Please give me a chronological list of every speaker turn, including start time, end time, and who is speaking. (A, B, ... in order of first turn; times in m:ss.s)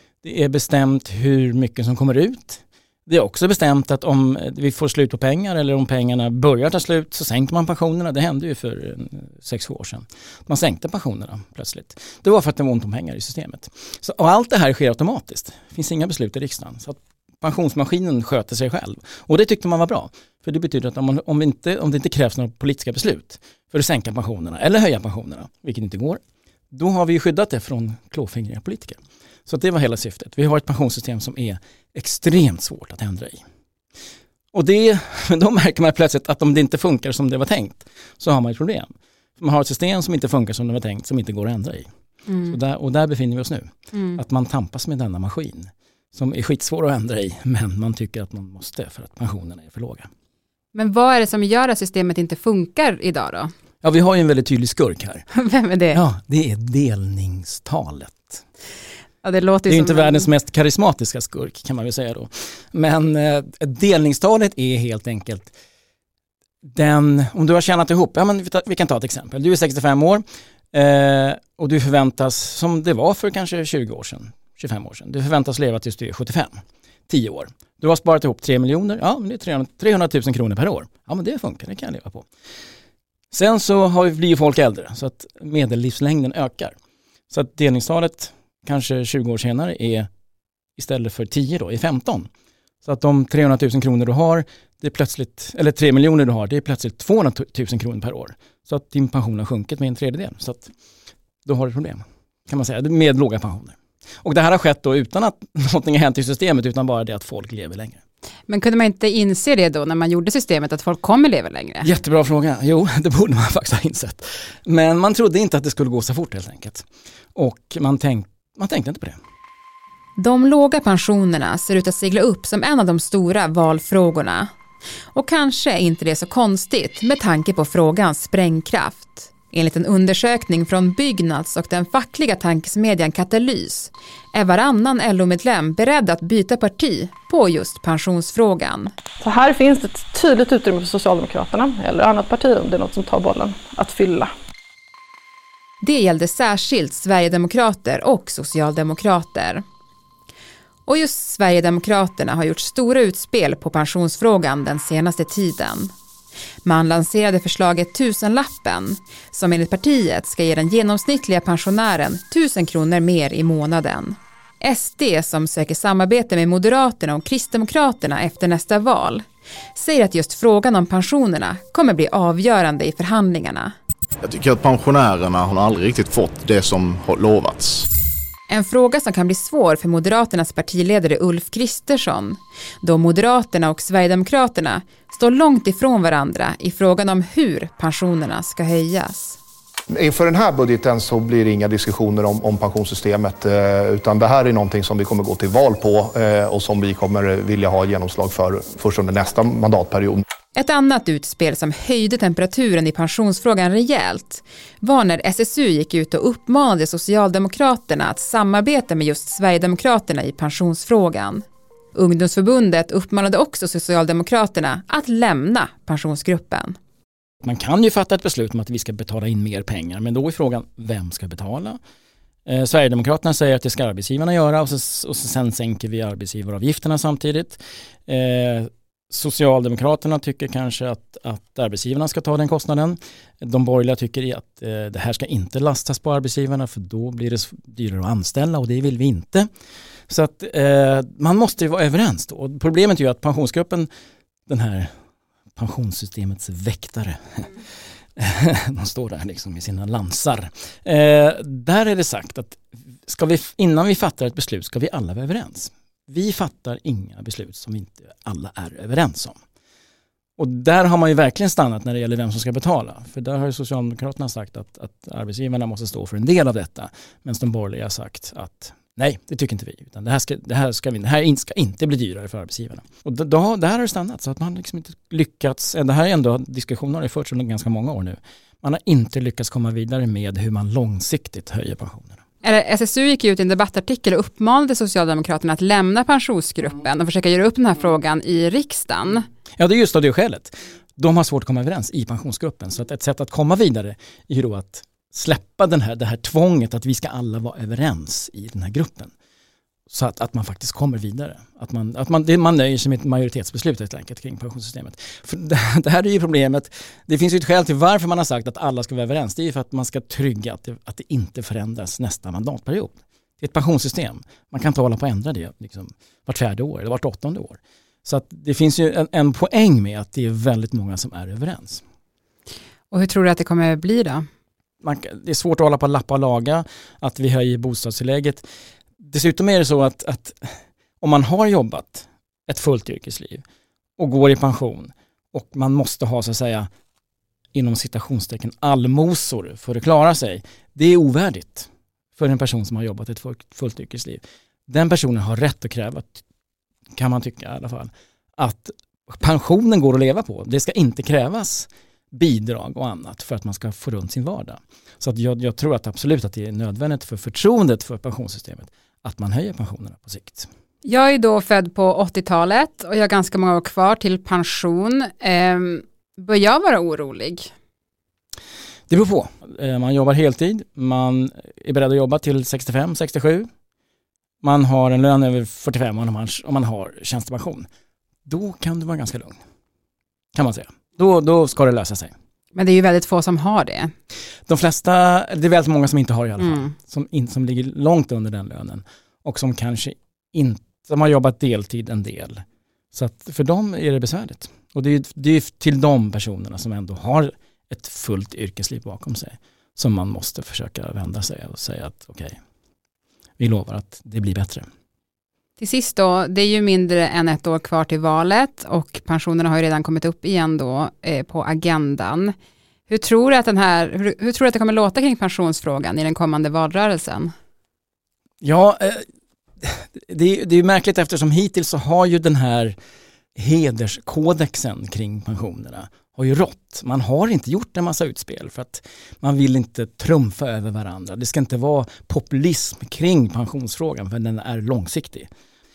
0:00.2-0:26.2 A
0:26.7-0:33.4 A
0:34.5-0:41.9 A
0:42.3-0:42.6 B
0:42.5-0:50.1 A
0:43.9-0:44.2 B
0:50.7-0:53.5 B
0:53.8-0:55.3 A
0:55.3-0:56.0 B
0:55.9-0:58.4 A
0:59.2-1:00.3 B
0:59.7-1:05.5 A
1:06.6-1:16.5 A
1:17.1-1:22.2 A
1:23.3-1:26.7 A
1:27.3-1:30.1 A
1:30.8-1:32.3 A
1:32.8-1:40.7 A
1:41.4-1:48.0 A
1:48.5-1:51.9 B
1:51.8-1:59.2 A
2:00.2-2:04.5 B
2:05.1-2:18.9 B
2:19.2-2:24.3 C
2:25.8-2:29.6 B
2:30.9-2:35.9 B
2:36.6-2:53.7 B
2:54.2-2:57.9 D
2:58.5-3:09.4 B
3:09.9-3:20.2 E
3:20.5-3:36.8 B
3:37.4-3:41.8 A
3:42.5-3:59.5 A
4:00.1-4:03.9 A
4:04.5-4:04.9 A
4:05.6-4:07.6 A
4:08.2-4:19.4 A
4:20.4-4:42.2 A
4:42.4-4:49.2 B
4:49.6-4:59.1 A
4:59.9-5:21.8 A
5:22.9-5:24.2 B
5:24.8-5:28.4 A
5:29.0-5:33.4 A
5:34.0-5:36.7 A
5:37.5-5:46.2 A
5:47.0-6:00.5 A
6:00.8-6:07.5 B
6:08.9-6:13.5 A
6:14.4-6:17.6 A
6:18.2-6:19.4 A
6:20.3-6:22.1 A
6:22.5-6:23.9 B
6:24.5-6:32.4 A
6:26.4-6:26.7 B
6:32.9-6:42.4 A
6:43.4-6:44.6 A
6:45.6-6:52.3 B
6:52.9-6:57.3 B
6:58.4-6:59.0 A
6:59.6-7:02.7 A
7:03.4-7:15.3 A